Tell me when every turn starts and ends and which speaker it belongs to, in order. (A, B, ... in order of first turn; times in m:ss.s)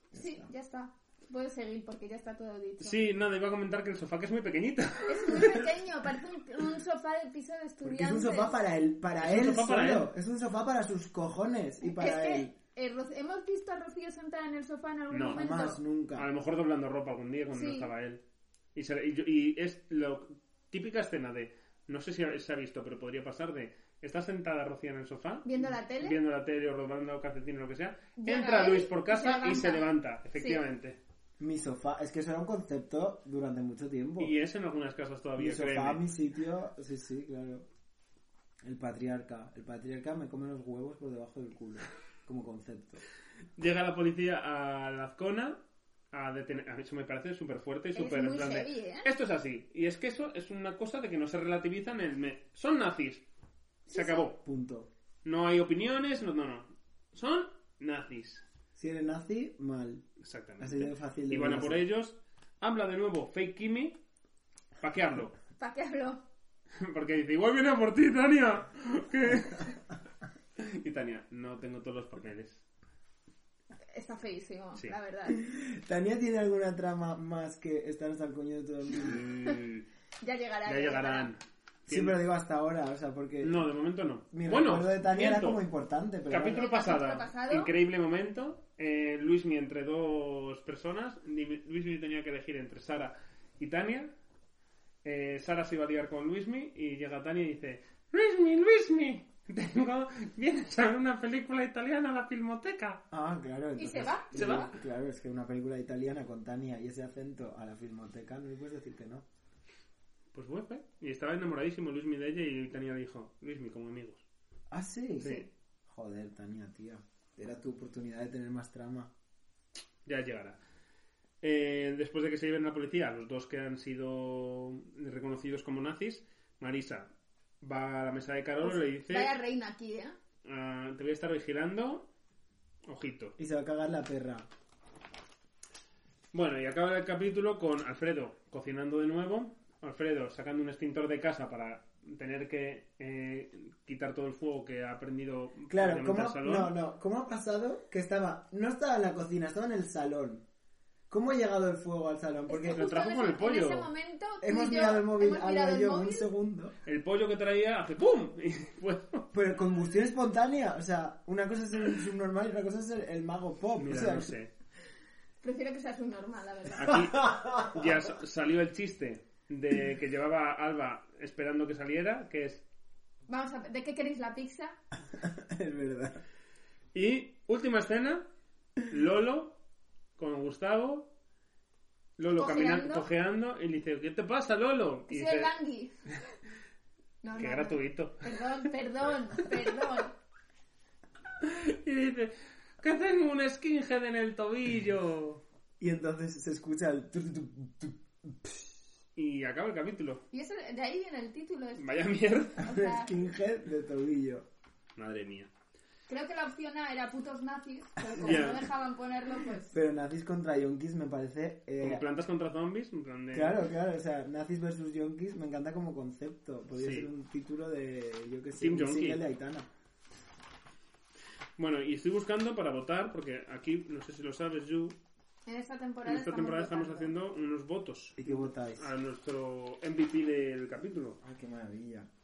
0:00.1-0:00.5 A
0:00.1-0:03.0 B
0:02.8-0:05.6 C
0:05.0-0:08.6 B
0:07.8-0:12.5 A
0:09.2-0:10.1 C
0:11.8-0:15.8 B
0:15.1-0:15.5 C
0:15.3-0:16.3 A
0:16.2-0:18.2 C
0:17.5-0:17.9 B
0:18.7-0:31.0 C
0:25.4-0:26.2 B
0:28.2-0:30.6 B
0:31.4-0:34.3 A
0:34.2-0:36.0 C
0:35.4-0:37.6 A
0:38.6-0:43.0 A
0:43.6-0:45.6 C
0:46.1-0:53.2 C
0:47.9-0:49.1 B
0:53.9-0:54.3 B
0:53.9-0:54.3 C
0:54.4-0:54.9 A
0:55.2-0:58.4 C
0:58.8-1:00.0 A
1:00.2-1:04.0 C
1:00.6-1:01.8 A
1:04.8-1:05.3 C
1:05.6-1:06.2 B
1:06.8-1:09.8 C
1:10.6-1:12.6 C
1:13.9-1:15.4 B
1:15.3-1:19.2 A
1:19.0-1:19.8 C
1:20.2-1:21.3 B
1:20.6-1:22.2 C
1:21.9-1:23.6 A
1:23.4-1:25.6 C
1:24.3-1:26.6 A
1:26.3-1:34.1 C
1:26.5-1:27.7 B
1:35.0-1:43.0 C
1:43.1-1:49.2 A
1:43.8-1:44.7 B
1:44.3-1:44.7 C
1:50.3-1:54.2 C
1:54.7-1:59.1 A
1:55.2-1:55.5 C
2:00.0-2:00.6 C
2:01.4-2:07.1 C
2:07.6-2:09.3 C
2:08.6-2:10.2 B
2:10.4-2:12.1 C
2:12.9-2:13.3 C
2:13.4-2:14.5 A
2:16.3-2:26.7 C
2:25.7-2:30.4 A
2:31.1-2:32.9 A
2:32.5-2:36.3 B
2:32.7-2:33.9 C
2:34.4-2:36.7 A
2:36.8-2:39.2 C
2:39.3-2:44.3 A
2:43.7-2:44.5 C
2:45.4-2:47.0 B
2:46.7-2:52.6 C
2:46.9-2:47.8 A
2:53.3-2:54.8 B
2:55.1-2:56.2 A
2:56.9-2:58.2 C
2:58.8-2:59.5 C
3:00.2-3:01.1 C
3:02.2-3:05.5 C
3:02.3-3:03.0 B
3:05.1-3:05.9 B
3:07.2-3:10.1 B
3:07.4-3:08.6 C
3:11.4-3:15.4 C
3:15.8-3:18.8 A
3:19.2-3:20.2 C
3:20.3-3:23.2 B
3:21.8-3:22.6 C
3:22.6-3:24.4 A
3:25.0-3:25.5 C
3:26.1-3:29.7 B
3:28.1-3:28.5 A
3:28.2-3:28.7 C
3:29.7-3:32.0 A
3:31.8-3:33.7 C
3:33.3-3:39.7 A
3:36.8-3:37.1 C
3:38.6-3:39.2 C
3:41.6-3:45.0 C
3:45.4-3:47.1 B
3:46.0-3:51.2 C
3:48.2-3:48.8 A
3:51.2-3:52.1 A